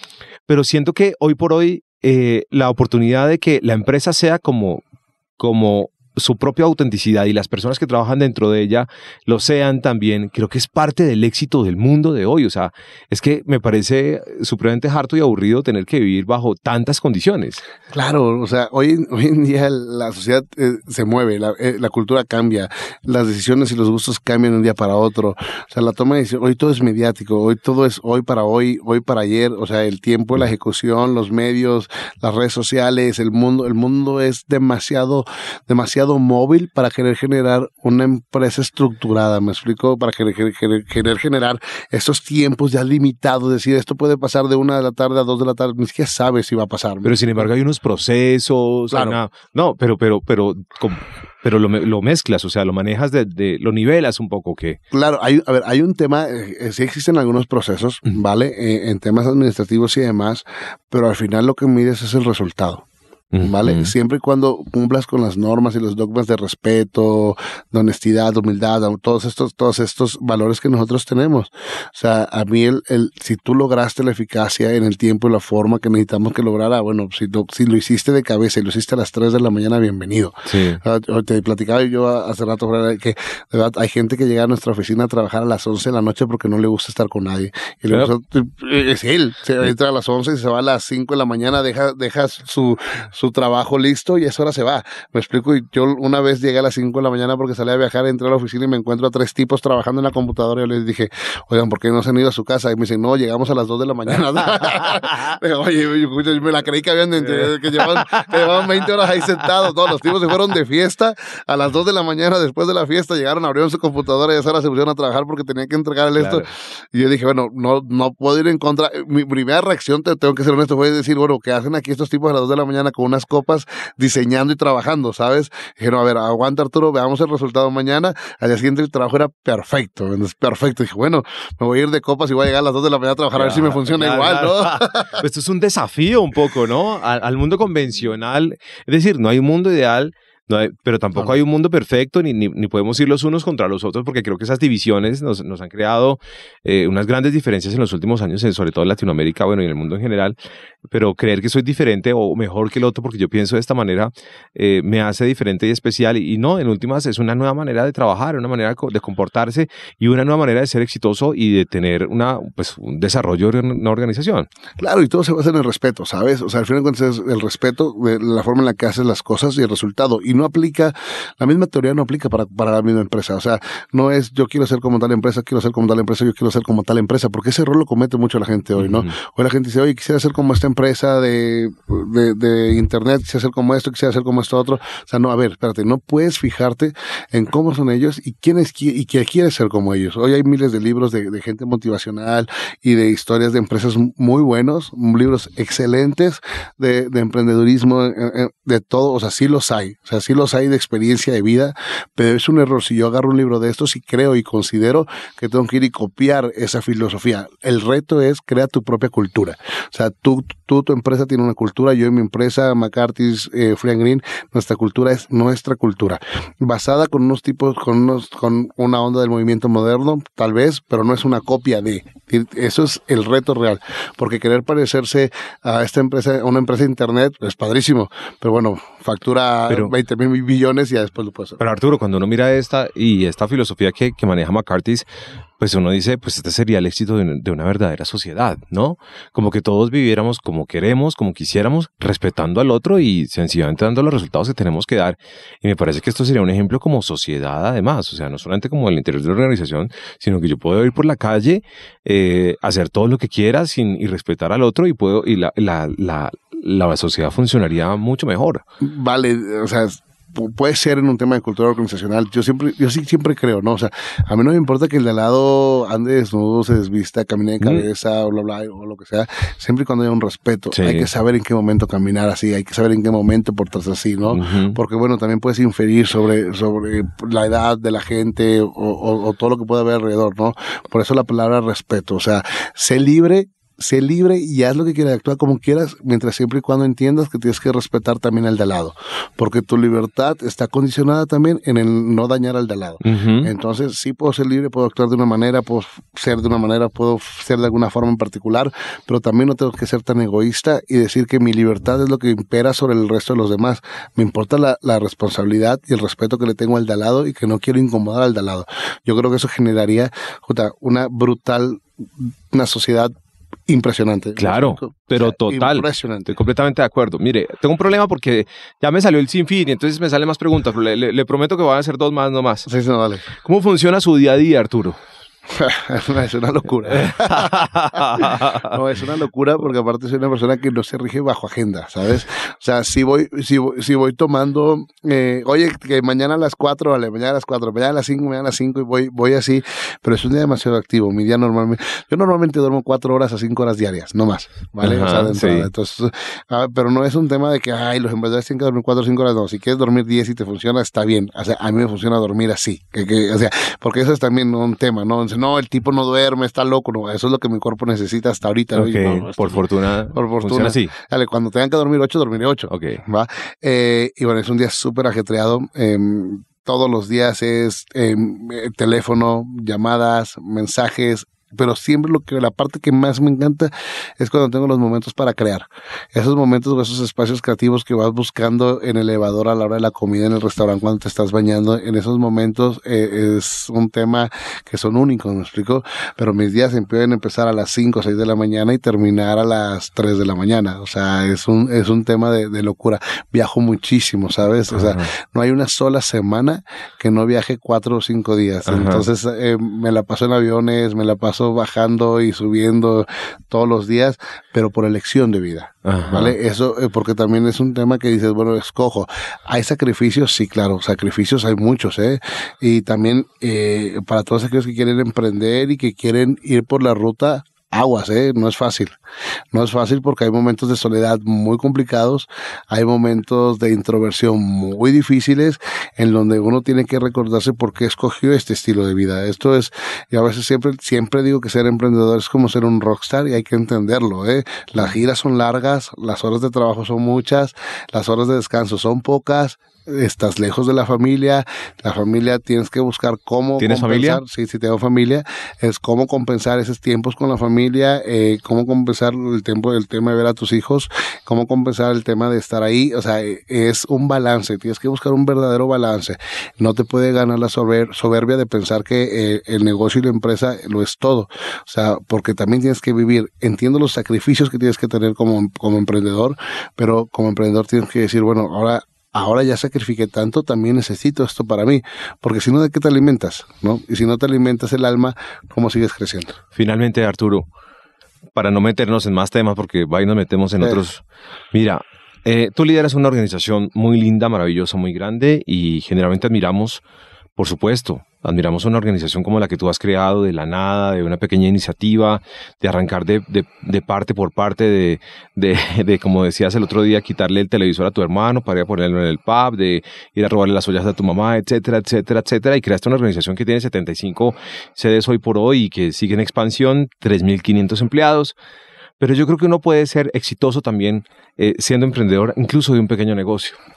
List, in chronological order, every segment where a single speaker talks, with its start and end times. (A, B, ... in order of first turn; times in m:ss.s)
0:00.5-0:04.8 A
0:05.4-0:17.6 A
0:17.9-0:47.5 B
0:47.0-0:54.8 A
0:48.9-0:49.2 B
0:54.9-1:02.8 B
1:03.3-1:03.9 A
1:03.4-2:15.2 B
1:20.5-1:20.8 A
1:56.2-1:56.5 A
2:13.3-2:30.4 A
2:30.9-2:44.5 A
2:44.8-3:51.6 B
2:58.8-2:59.1 A
3:49.7-3:49.9 A
3:51.6-3:55.0 A
3:55.6-4:18.6 A
4:18.8-5:13.1 B
4:27.6-4:27.8 A
4:30.7-4:31.1 A
4:34.3-4:34.8 A
4:53.0-4:53.5 A
5:13.7-5:16.3 B
5:14.4-5:22.7 A
5:22.6-5:23.3 B
5:23.4-5:25.0 A
5:25.5-6:59.0 B
5:26.9-5:28.7 A
5:44.8-5:45.7 A
5:58.7-6:00.9 A
6:02.7-6:03.0 A
6:34.7-6:35.1 A
6:38.6-6:39.0 A
6:45.8-6:46.3 A
6:59.5-7:56.4 B
7:23.6-7:24.2 A
7:56.5-7:57.5 A
7:58.3-8:06.8 A
8:07.4-8:28.3 A
8:29.0-8:33.6 A